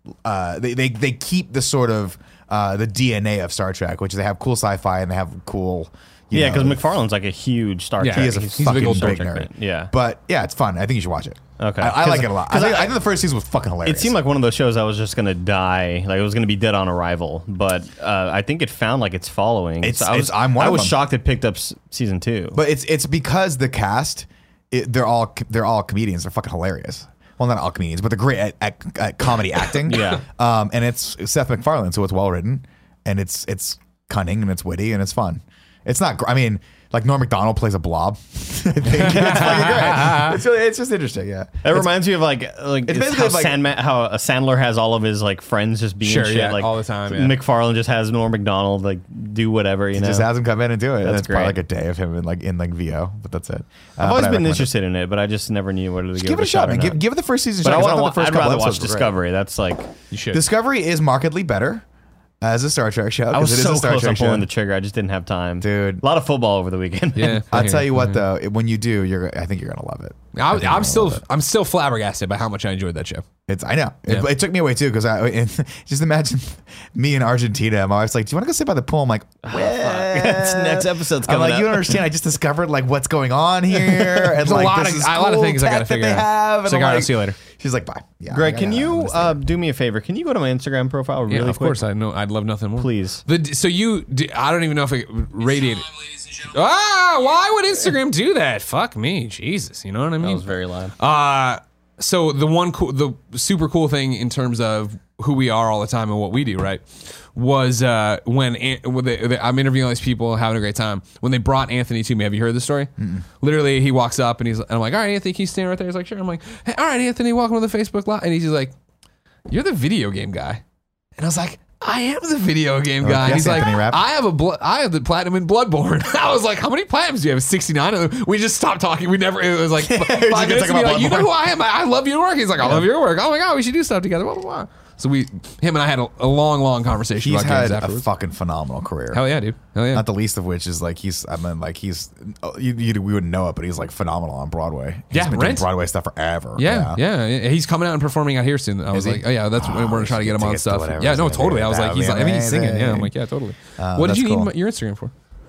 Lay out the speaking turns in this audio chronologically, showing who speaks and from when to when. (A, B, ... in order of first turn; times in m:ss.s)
0:00.2-0:06.8 A
0:06.3-0:09.9 B
0:08.0-0:09.2 C
0:08.1-0:14.2 A
0:11.6-0:13.0 B
0:13.8-0:22.6 B
0:19.8-0:21.0 A
0:22.5-0:41.9 A
0:29.9-0:30.2 B
0:38.9-0:40.4 C
0:39.4-0:39.6 B
0:41.6-0:50.3 B
0:42.9-0:43.6 A
0:46.0-0:47.4 C
0:49.9-0:54.7 A
0:51.0-0:51.6 B
0:54.0-0:57.0 B
0:56.2-0:59.2 A
0:57.6-0:59.9 B
1:00.1-1:00.4 C
1:00.3-1:01.8 A
1:02.4-1:04.5 A
1:03.3-1:07.4 B
1:05.6-1:06.0 A
1:07.2-1:08.2 C
1:07.5-1:11.2 A
1:10.4-1:13.2 C
1:13.5-1:29.4 A
1:19.4-1:22.0 B
1:23.8-1:24.3 B
1:24.4-1:27.4 C
1:28.3-1:31.8 B
1:31.3-1:40.5 C
1:32.8-1:33.2 B
1:40.2-1:41.0 B
1:41.0-1:58.7 C
1:53.0-1:53.2 A
1:59.5-2:00.6 C
2:01.2-2:18.1 C
2:03.0-2:04.0 A
2:09.8-2:11.3 A
2:12.6-2:12.9 A
2:17.2-2:19.3 A
2:19.1-2:20.1 C
2:19.9-2:27.0 A
2:25.1-2:25.7 C
2:26.6-2:35.1 C
2:28.9-2:33.1 A
2:33.8-2:34.5 A